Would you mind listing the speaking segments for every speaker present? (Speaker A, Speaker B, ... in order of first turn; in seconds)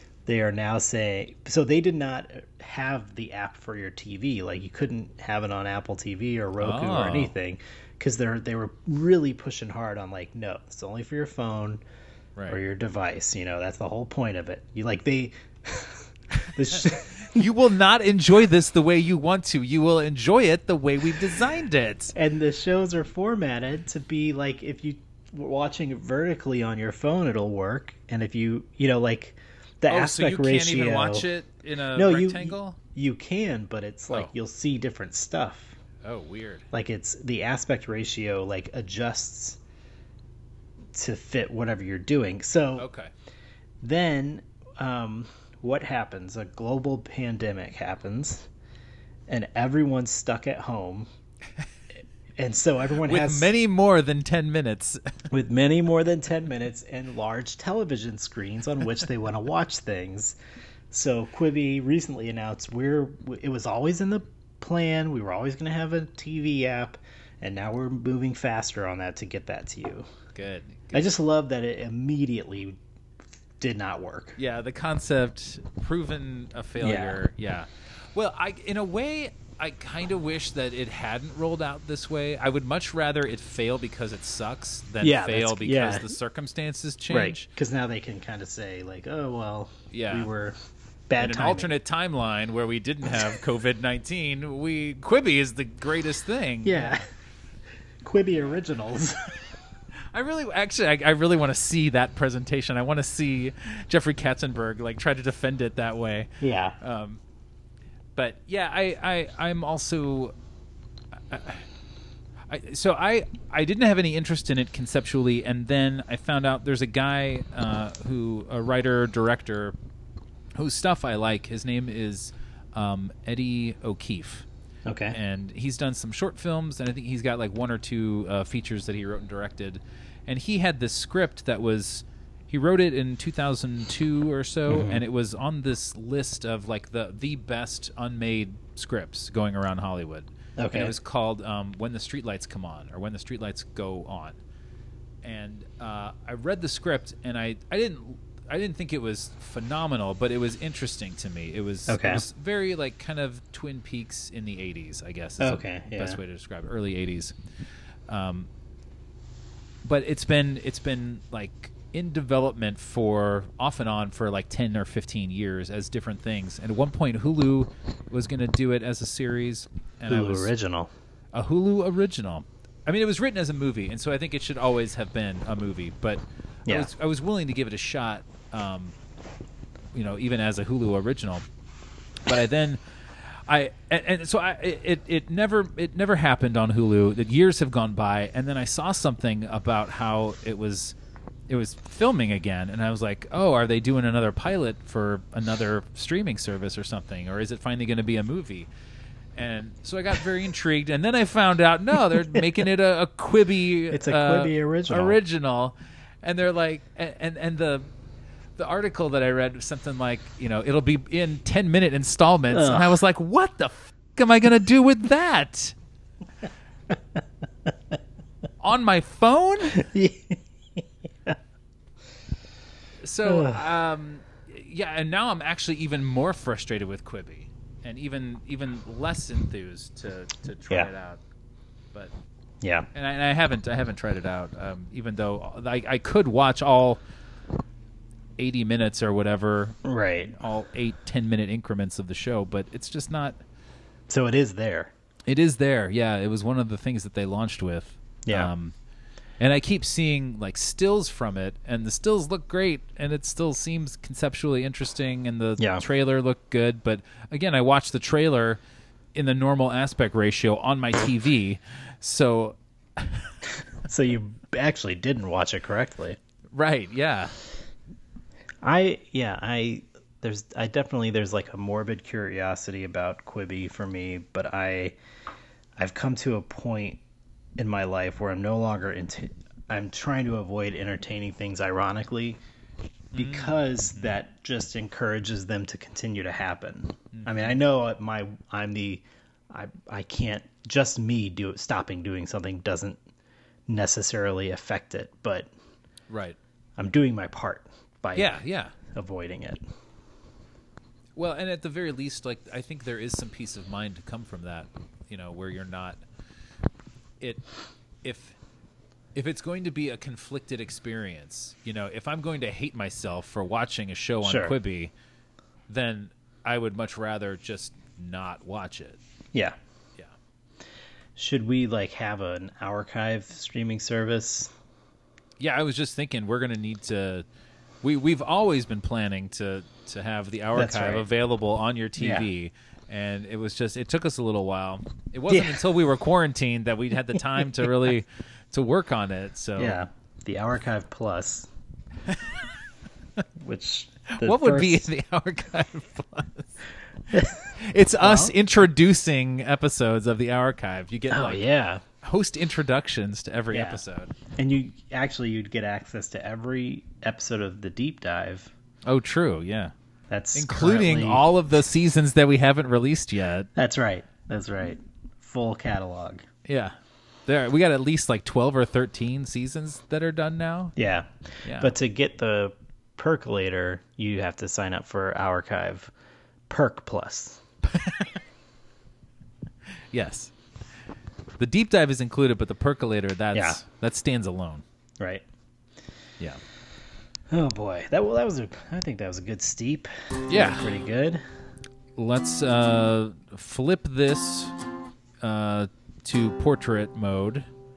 Speaker A: 0.3-11.8, 12.5-17.4, 22.1-31.3, 31.9-35.8, 36.7-39.6, 40.9-42.9, 43.8-48.5, 49.3-51.1, 52.4-53.5, 55.3-60.4, 60.9-70.1, 70.9-72.8, 73.6-74.4, 76.8-77.2, 85.0-86.2, 87.1-90.6, 91.1-91.7, 93.1-93.4, 96.6-97.0, 98.0-99.3, 106.4-106.8, 124.9-125.2, 134.7-135.0, 140.6-140.9, 151.9-152.2, 155.4-156.2, 170.1-170.9, 203.9-205.2, 212.5-213.0, 219.7-221.4, 223.2-223.6, 232.6-232.9, 239.8-240.4, 244.1-244.9, 248.3-248.5, 255.6-255.8, 263.9-266.2, 268.6-275.0, 275.8-277.0, 277.6-282.4, 283.1-293.0, 293.7-295.5, 296.8-298.4, 298.9-299.6, 314.2-314.5, 321.2-324.5, 330.6-331.1, 332.0-332.3, 335.3-335.6, 339.6-341.5, 343.4-344.9, 347.1-347.4, 348.0-348.3, 351.1-351.8, 353.5-353.8, 354.4-358.5, 360.1-361.3, 363.6-366.2, 370.8-375.9, 376.5-377.4, 383.3-383.6, 385.0-385.2, 387.3-391.2
Speaker B: 6.6-7.3, 16.8-22.1, 29.9-32.8, 36.0-36.7, 42.8-43.1, 53.0-55.0, 70.3-71.1, 74.4-87.5, 89.9-90.3, 91.2-97.0, 100.1-106.3, 106.8-107.2, 108.2-110.3, 111.3-111.7, 112.5-119.8, 120.6-124.5, 125.1-144.4, 145.2-157.3, 158.1-158.5, 159.8-170.5, 171.3-178.9, 179.9-181.4, 182.3-182.8, 183.3-191.0, 191.5-198.7, 199.4-207.9, 208.6-215.8, 218.6-219.8, 223.0-231.2, 232.9-237.0, 238.4-239.8, 240.3-243.4, 245.3-248.8, 249.4-258.6, 259.1-263.3, 266.5-267.3, 283.1-284.1, 287.1-287.6, 296.1-296.4, 298.1-298.7, 301.2-306.0, 307.2-307.5, 308.0-308.4, 309.1-314.9, 315.7-319.0, 325.4-327.3, 327.8-339.8, 342.1-342.4, 344.2-346.5, 347.6-351.4, 352.0-354.1, 358.9-359.7, 360.3-363.5, 366.5-366.8, 367.3-370.8, 371.4-371.8, 377.7-378.2, 379.9-380.3, 381.4-384.6, 390.3-390.8, 392.0-394.5, 395.2-397.5